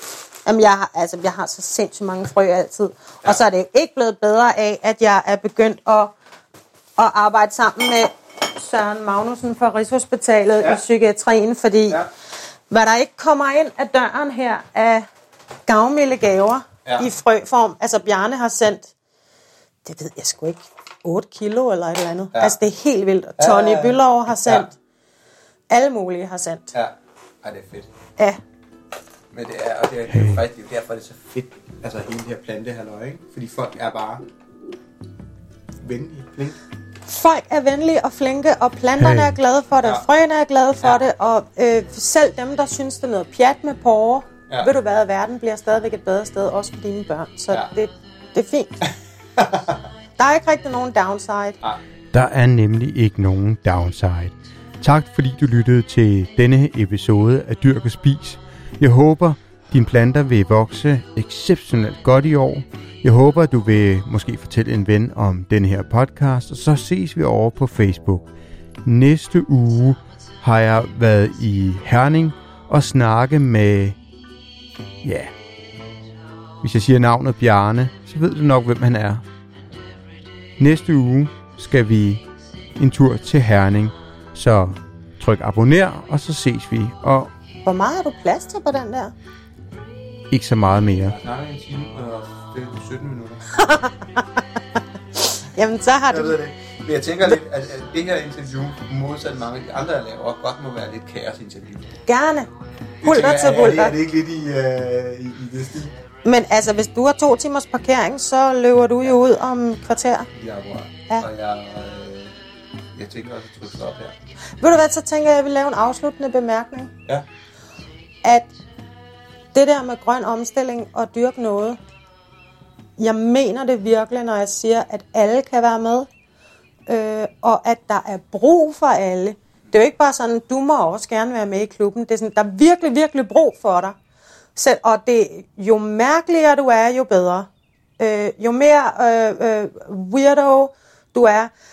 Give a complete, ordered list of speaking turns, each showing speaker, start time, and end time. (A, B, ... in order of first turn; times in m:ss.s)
0:00.4-0:06.1 A
0:07.0-0:12.0 A
0:12.7-0:15.1 A
0:15.7-0:18.9 A
0:16.8-0:17.1 B
0:19.8-0:24.7 A
0:23.4-0:24.7 B
0:25.7-0:26.7 A
0:26.7-0:27.9 B
0:29.3-0:34.2 B
0:30.1-0:30.4 C
0:35.8-0:36.6 B
0:37.1-0:48.8 A
0:39.0-0:39.4 C
0:49.4-0:49.9 B
0:50.2-0:51.6 A
0:52.1-1:08.3 C
1:08.8-1:14.0 C
1:15.0-1:15.3 C
1:16.6-1:19.2 C
1:20.6-1:22.2 C
1:22.8-1:27.3 C
1:27.6-1:29.1 A
1:30.3-1:31.2 C
1:31.0-1:33.4 B
1:33.6-1:34.2 A
1:35.4-1:36.4 A
1:36.1-1:42.0 B
1:42.1-1:42.5 A
1:43.0-1:46.0 B
1:43.0-1:44.0 A
1:46.2-1:50.3 A
1:50.3-1:52.4 B
1:52.9-1:54.2 B
1:54.6-1:56.9 A
1:58.2-1:58.5 A
1:59.5-2:01.8 A
2:03.0-2:06.1 A
2:06.9-2:14.0 A
2:14.6-2:17.5 A
2:18.0-2:21.5 A